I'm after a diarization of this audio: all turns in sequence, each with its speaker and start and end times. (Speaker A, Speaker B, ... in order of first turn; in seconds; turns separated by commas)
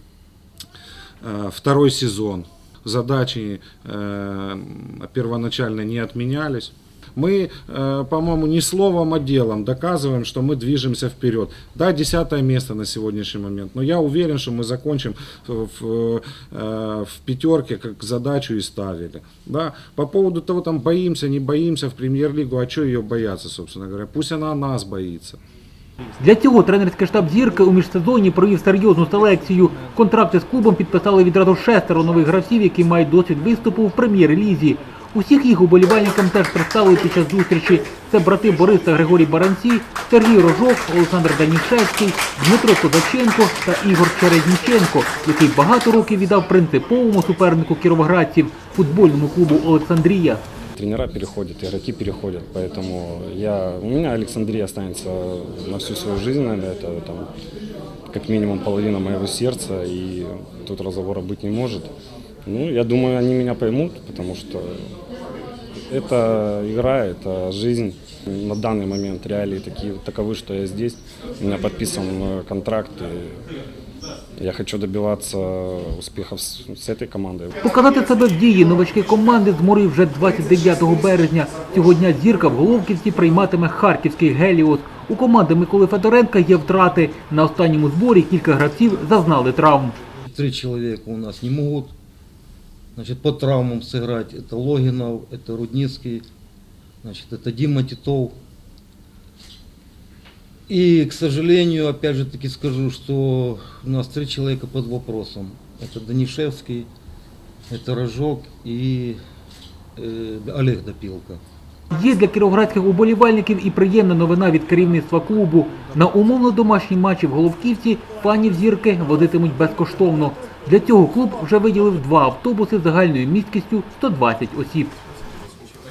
Speaker A: 1.2-25.4, Speaker B: 26.2-50.4, Speaker C: 50.8-57.3, Speaker C: 58.1-61.9, Speaker C: 62.5-64.8, Speaker C: 65.9-73.4, Speaker C: 74.4-77.5, Speaker B: 77.6-90.0, Speaker D: 90.3-91.9, Speaker D: 93.0-96.3, Speaker D: 97.0-98.4, Speaker D: 100.7-106.9, Speaker D: 107.7-109.2, Speaker D: 110.0-111.4, Speaker B: 111.9-125.0